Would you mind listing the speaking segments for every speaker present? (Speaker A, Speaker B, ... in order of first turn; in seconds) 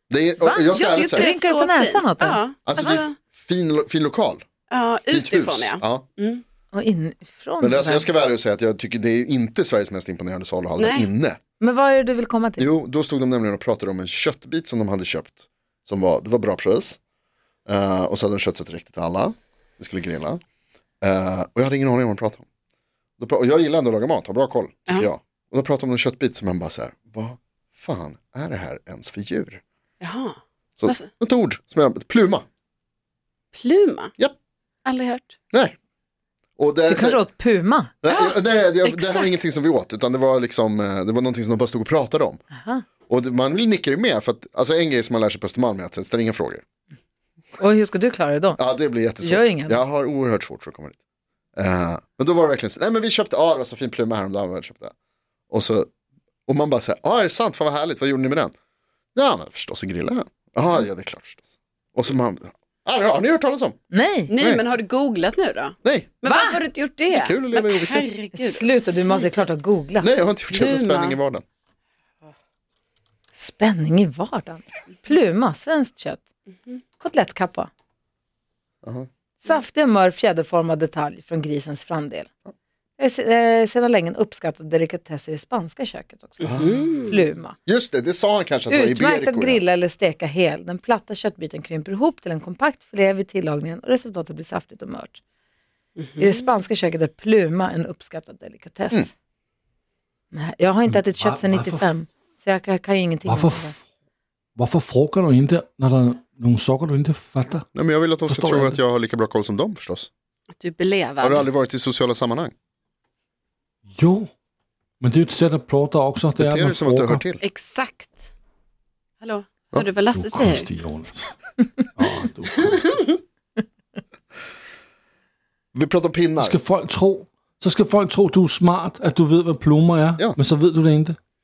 Speaker A: 0.1-1.3, 2.6-4.5, 5.0-6.0, 7.6-11.4, 12.6-17.0, 17.7-20.4, 21.0-22.4, 23.2-29.6, 30.8-32.5, 36.6-37.2, 38.0-42.4, 43.1-46.6, 48.6-51.0, 51.5-54.9, 55.5-55.9, 56.5-58.5, 59.1-63.8, 65.8-66.1, 67.1-68.0, 70.0-71.4, 86.5-86.8, 87.7-89.6, 107.8-110.1, 111.2-112.5, 116.4-117.4, 125.7-126.6
Speaker B: 0.4-3.0, 6.7-8.1, 11.6-12.7, 36.9-37.9, 42.5-42.9, 47.6-49.8, 63.9-64.3, 66.2-66.6, 68.3-70.1, 73.3-76.2, 77.0-77.7, 79.4-82.3, 83.0-87.6, 88.7-95.2, 96.2-99.1, 100.3-103.8
Speaker C: 0.6-3.1, 4.7-6.4, 10.8-11.1, 30.0-31.1, 33.5-34.1, 34.9-35.4, 38.1-38.3, 38.9-39.3, 64.3-69.5, 70.5-71.2, 86.5-87.2, 96.0-96.4, 110.5-111.5, 117.4-118.3, 119.2-120.7
Speaker D: 101.0-101.9, 103.2-103.8, 104.5-107.7, 108.2-108.8, 114.0-114.3, 115.0-117.2, 120.1-121.4, 122.0-123.1, 126.4-131.2